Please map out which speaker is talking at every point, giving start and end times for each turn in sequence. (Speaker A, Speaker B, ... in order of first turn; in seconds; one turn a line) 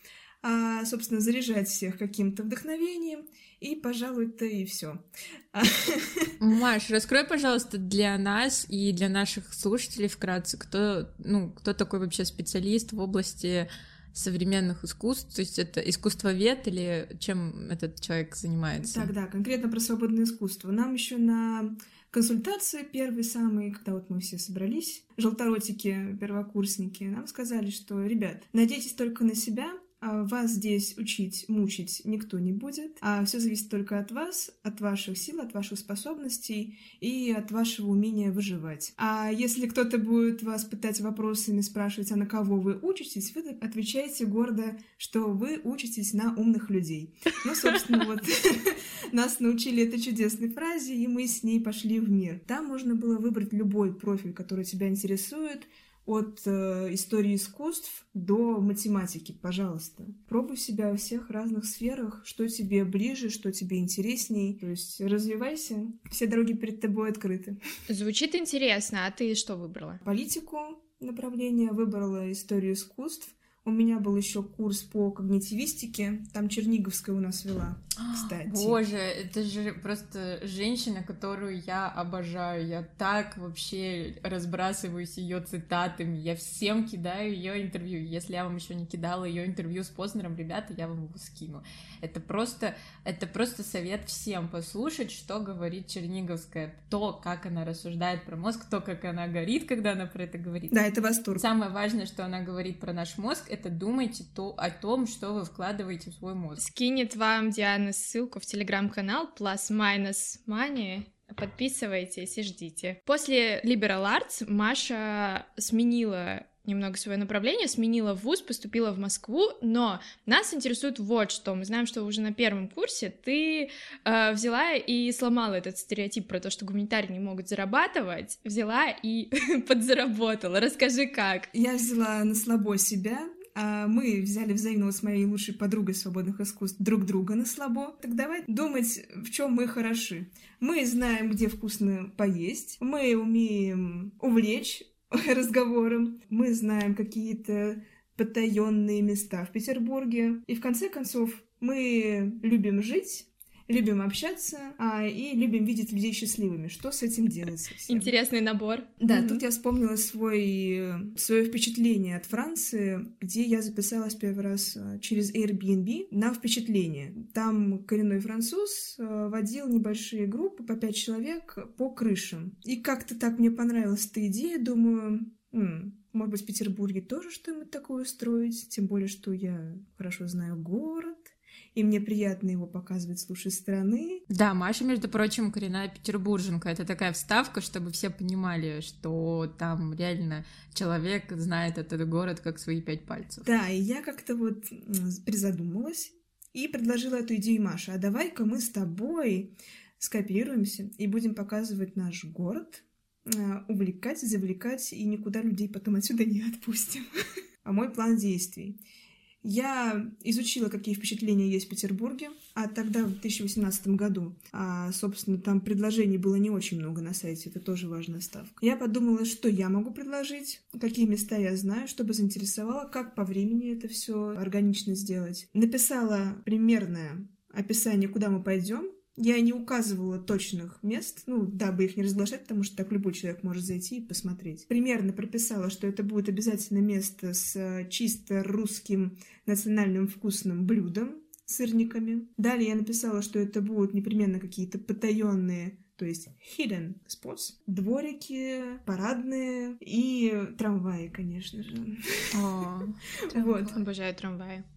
Speaker A: 0.4-6.3
Speaker B: 6.4-19.1
Speaker A: 18.8-67.6
Speaker C: 67.9-70.0
Speaker A: 70.0-78.8
Speaker B: 78.0-100.8
Speaker A: 100.7-101.5
Speaker B: 101.3-106.6
Speaker C: 106.6-131.5
Speaker A: 131.5-158.1
Speaker C: 157.9-159.4
Speaker A: 159.0-184.2
Speaker B: 184.3-193.5
Speaker A: 193.4-207.1
Speaker A: 207.6-208.8
Speaker A: 209.4-252.6
Speaker B: 252.3-253.6
Speaker A: 253.2-253.8
Speaker C: 253.5-254.6